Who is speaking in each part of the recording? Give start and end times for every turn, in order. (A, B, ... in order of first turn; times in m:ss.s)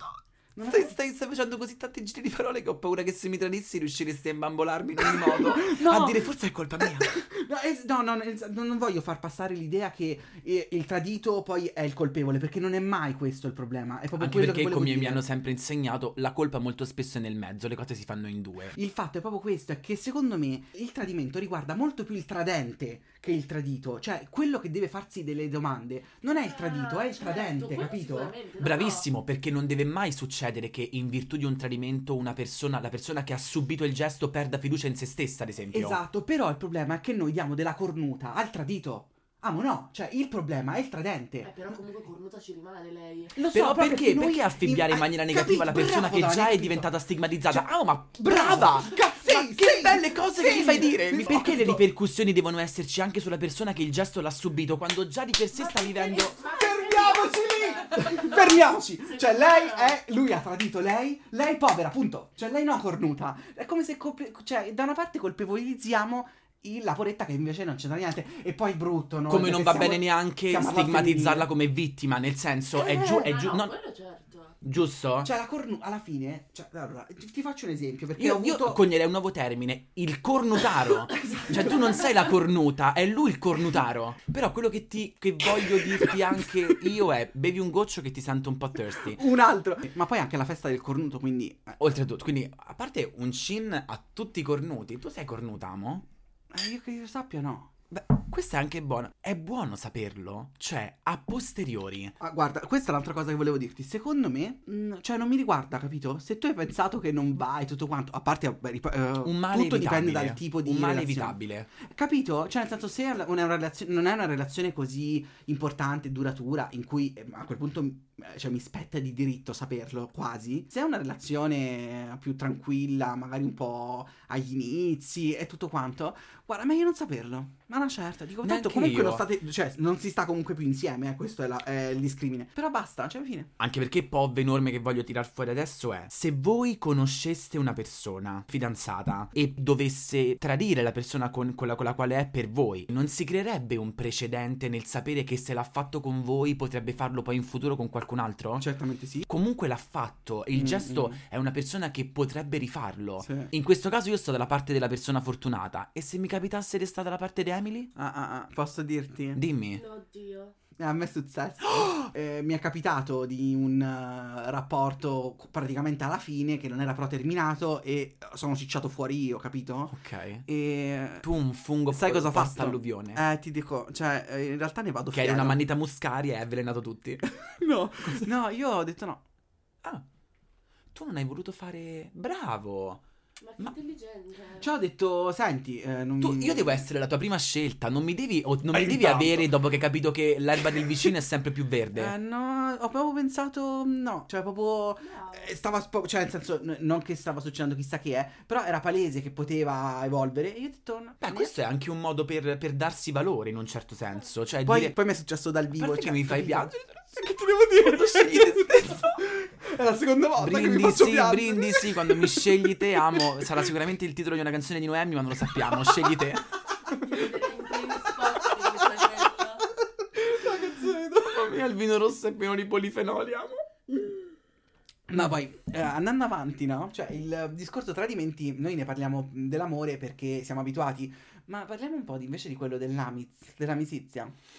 0:00.5-0:00.9 A
0:00.6-0:07.1 B
0:05.0-0:15.2 A
0:14.2-0:18.7 B
0:18.7-0:28.3 A
0:26.3-0:29.0 C
0:28.6-0:36.0 B
0:35.7-0:41.7 A
0:41.4-0:43.4 C
0:43.3-0:46.9 A
0:43.5-0:56.4 B
0:47.5-0:51.8 A
0:55.5-1:00.0 C
0:56.4-1:11.5 A
1:09.3-1:13.7 B
1:12.8-1:13.2 A
1:12.8-1:14.6 C
1:14.6-1:15.3 B
1:15.2-1:18.8 A
1:18.2-1:29.2 B
1:21.2-1:21.8 A
1:21.3-1:22.0 C
1:29.0-1:31.8 A
1:31.8-1:36.0 B
1:36.5-1:37.7 A
1:37.9-1:42.1 B
1:42.2-2:13.5 A
1:49.2-1:51.7 B
2:08.4-2:09.3 B
2:13.6-2:28.6 B
2:28.6-2:29.3 A
2:29.3-2:37.9 B
2:30.5-2:31.2 A
2:33.2-2:33.5 A
2:38.0-2:39.4 A
2:39.3-2:39.8 B
2:39.7-2:40.5 C
2:40.8-2:51.3 A
2:49.9-2:50.4 B
2:51.2-2:53.2 B
2:51.9-2:55.6 A
2:55.1-2:57.3 B
2:57.5-2:59.2 A
3:00.9-3:03.0 B
3:03.4-3:04.7 C
3:04.6-3:06.8 A
3:06.2-3:12.1 B
3:08.7-3:09.5 A
3:10.7-3:11.1 A
3:11.9-3:21.5 A
3:15.0-3:15.6 C
3:21.2-3:24.9 B
3:24.6-3:33.6 A
3:25.8-3:29.2 B
3:30.4-3:36.5 B
3:35.6-3:36.0 A
3:36.9-3:39.2 A
3:36.9-3:39.7 C
3:39.8-3:41.4 A
3:40.4-3:43.6 B
3:45.1-3:54.3 A